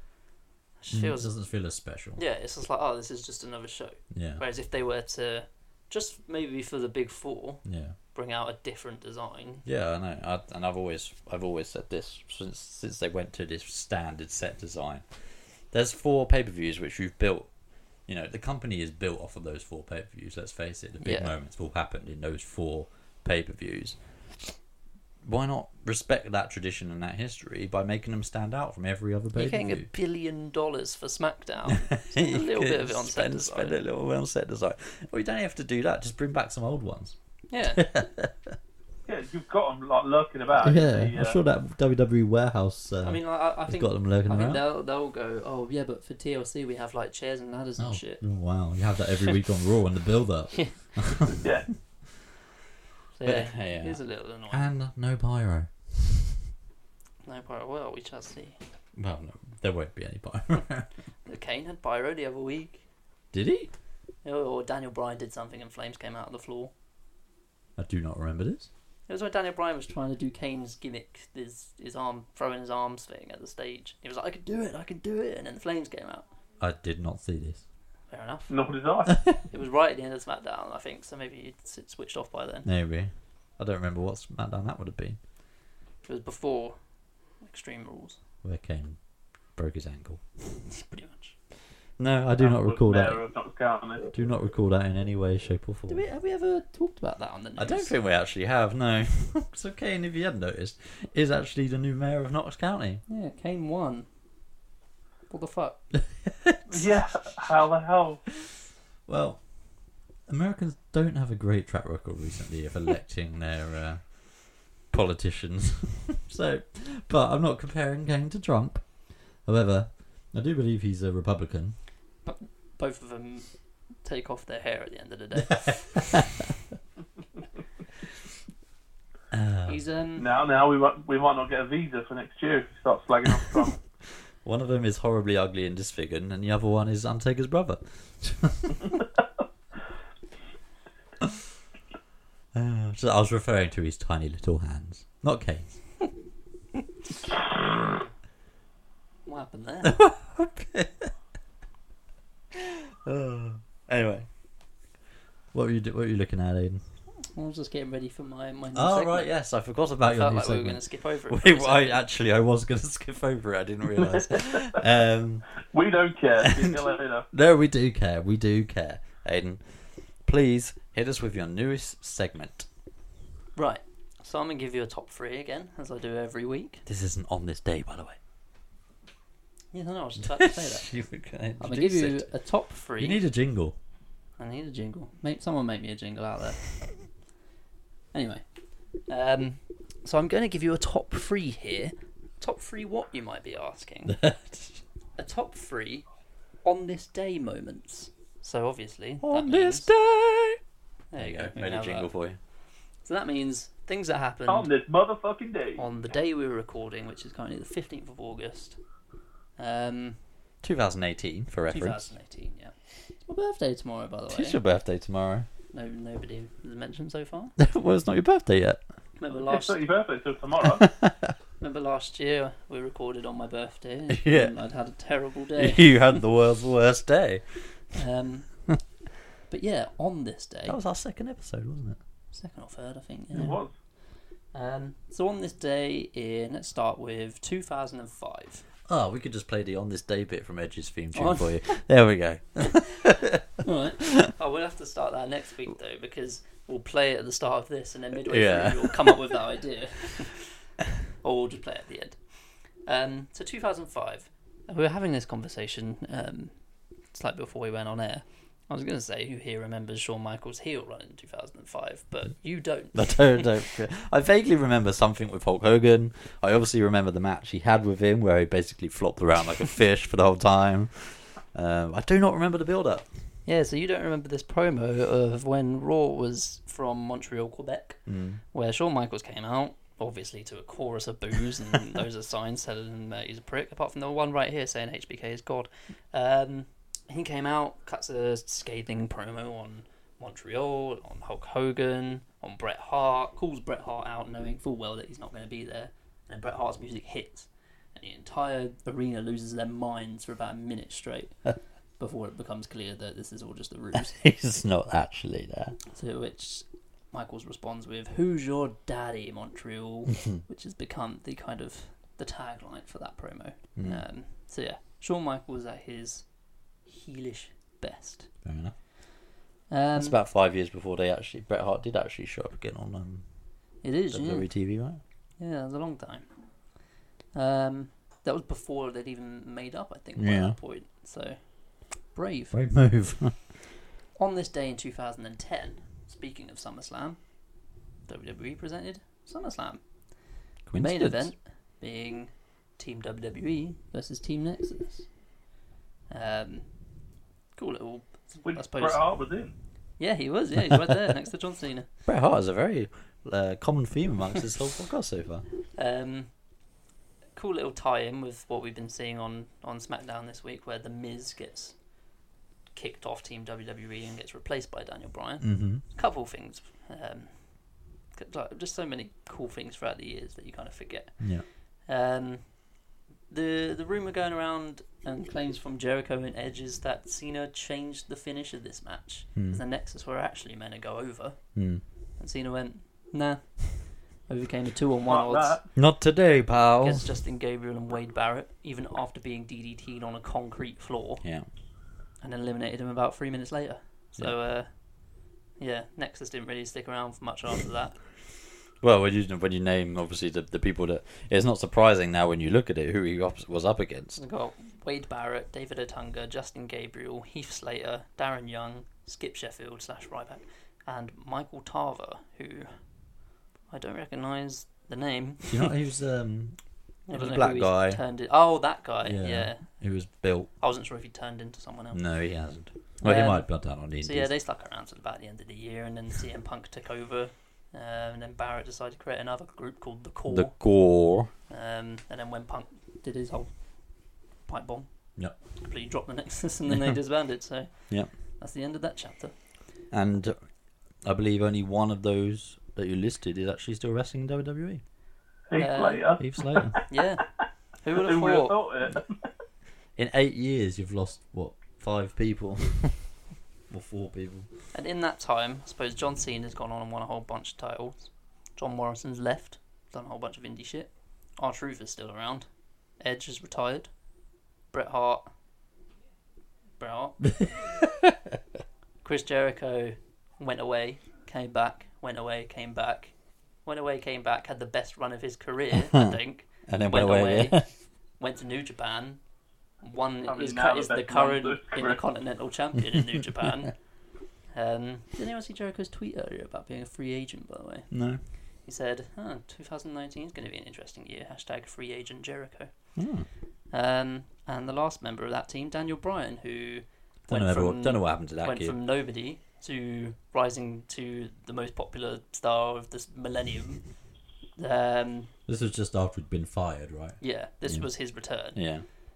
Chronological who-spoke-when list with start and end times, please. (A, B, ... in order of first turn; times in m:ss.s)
0:00.8-0:01.3 A
0:00.9-0:02.2 B
0:02.2-0:09.6 A
0:04.1-0:04.4 B
0:07.6-0:08.0 B
0:09.6-0:17.5 B
0:18.1-0:24.5 B
0:21.0-0:21.3 A
0:25.2-0:29.9 B
0:29.3-0:33.8 A
0:31.7-0:37.2 B
0:37.5-0:37.8 A
0:37.7-0:38.6 B
0:39.1-0:41.4 C
0:40.6-0:44.6 B
0:43.0-0:48.2 A
0:47.8-0:51.5 B
0:51.4-0:51.8 C
0:53.1-0:54.7 A
0:53.2-0:56.4 B
0:57.2-0:58.6 A
0:59.0-1:00.9 B
1:01.3-1:02.8 A
1:03.3-1:03.7 B
1:04.2-1:06.7 A
1:07.8-1:08.7 B
1:09.1-1:16.3 A
1:16.6-1:17.6 B
1:18.1-1:18.6 A
1:18.5-1:19.2 C
1:19.5-1:22.7 A
1:22.6-1:25.2 B
1:26.0-1:26.8 A
1:27.4-1:28.2 A
1:28.4-1:29.0 B
1:29.6-1:30.6 B
1:30.7-1:31.4 A
1:32.0-1:33.2 B
1:32.4-1:34.1 C
1:34.1-1:36.0 B
1:35.9-1:38.0 A
1:37.6-1:43.0 B
1:43.1-1:44.1 A
1:45.3-1:45.8 A
1:45.9-1:46.9 B
1:46.7-1:48.2 C
1:49.1-1:49.4 B
1:50.3-1:58.8 B
1:59.4-2:01.8 B
2:02.2-2:06.2 A
2:05.6-2:06.5 B
2:09.3-2:09.8 B
2:09.7-2:10.3 A
2:10.2-2:13.8 C
2:14.4-2:19.0 B
2:22.5-2:25.7 B
2:29.3-2:30.0 A
2:29.8-2:31.1 B
2:32.5-2:34.3 B
2:35.5-2:36.8 B
2:37.3-2:39.3 A
2:38.7-2:45.5 B
2:40.1-2:42.0 A
2:45.7-2:47.3 C
2:46.4-2:49.6 B
2:50.2-2:52.7 B
2:53.6-2:56.8 A
2:56.9-2:58.2 B
2:59.7-3:00.9 A
3:00.2-3:02.3 B
3:01.6-3:03.2 A
3:03.0-3:03.8 B
3:04.4-3:06.7 A
3:08.1-3:08.4 A
3:09.1-3:14.2 A
3:14.1-3:14.8 B
3:15.2-3:16.1 A
3:16.6-3:19.9 A
3:19.2-3:20.6 B
3:21.1-3:22.1 A
3:21.2-3:22.4 B
3:23.0-3:24.7 A
3:24.5-3:25.8 C
3:25.8-3:28.8 A
3:29.6-3:30.2 A
3:30.6-3:32.1 B
3:31.7-3:34.6 A
3:34.3-3:35.5 B
3:35.7-3:37.6 A
3:37.6-3:38.8 B
3:39.2-3:39.8 A
3:39.5-3:40.9 C
3:40.8-3:41.3 B
3:41.6-3:46.0 A
3:44.1-3:44.5 B
3:45.6-3:47.8 B
3:48.0-3:48.5 A
3:49.5-3:50.8 A
3:50.7-3:52.0 B
3:52.3-3:53.6 A
3:53.3-3:53.7 C
3:54.5-3:58.7 A
3:58.9-4:03.5 B
4:01.1-4:01.5 A
4:03.6-4:10.5 A
4:04.0-4:04.3 B
4:08.3-4:09.2 B
4:11.2-4:16.5 A
4:17.1-4:23.5 A
4:22.9-4:33.1 B
4:33.5-5:01.4 A
4:38.1-4:38.4 B
5:02.0-5:04.2 A
5:04.0-5:05.8 B
5:05.9-5:16.3 A
5:13.8-5:14.0 B
5:16.8-5:18.3 A
5:18.4-5:18.8 B
5:19.7-5:20.2 A
5:20.0-5:23.3 B
5:23.8-5:24.5 A
5:24.1-5:25.0 B
5:25.4-5:26.4 A
5:27.3-5:32.6 A
5:30.2-5:30.6 B
5:32.5-5:33.5 B
5:34.2-5:37.4 A
5:38.1-5:39.8 A
5:40.7-5:41.3 B
5:40.8-5:45.1 A
5:46.1-5:46.7 A
5:47.6-5:49.0 A
5:48.5-5:49.5 C
5:50.0-5:51.9 A
5:50.6-5:51.0 B
5:52.0-5:55.4 B
5:55.8-5:56.3 A
5:57.4-6:01.8 A
6:02.7-6:21.6 A
6:05.4-6:05.8 B
6:11.2-6:11.5 B
6:19.4-6:19.6 B
6:21.6-6:21.8 B
6:22.2-6:25.6 A
6:25.1-6:25.7 C
6:25.7-6:27.1 B
6:26.8-6:31.2 A
6:31.2-6:31.5 B
6:32.2-6:38.0 A
6:38.8-6:44.2 B
6:44.2-6:52.9 A
6:53.7-6:55.7 A
6:55.5-6:58.0 B
6:57.1-6:59.7 A
6:59.0-7:00.5 B
7:00.6-7:02.0 A
7:01.9-7:04.3 B
7:03.0-7:10.6 A
7:10.3-7:11.3 B
7:11.5-7:14.9 A
7:15.6-7:19.4 A
7:16.7-7:17.0 B
7:19.9-7:20.4 B
7:21.0-7:24.8 B
7:25.5-7:26.8 C
7:25.6-7:26.1 A
7:26.2-7:26.8 B
7:26.9-7:28.6 A
7:28.0-7:29.3 C
7:30.0-7:33.1 B
7:33.7-7:34.5 B
7:34.7-7:42.5 A
7:43.0-7:43.9 A
7:44.7-7:45.3 A
7:46.8-7:47.3 A
7:47.3-7:48.3 B
7:49.0-7:59.2 A
7:56.7-7:57.7 B
7:59.8-8:03.8 A
8:00.3-8:02.0 C
8:04.5-8:07.9 A
8:07.9-8:08.2 B
8:08.6-8:12.9 A
8:13.0-8:13.3 B
8:13.7-8:23.9 A
8:17.3-8:18.8 B
8:24.6-8:25.3 A
8:25.5-8:28.9 B
8:27.2-8:28.7 A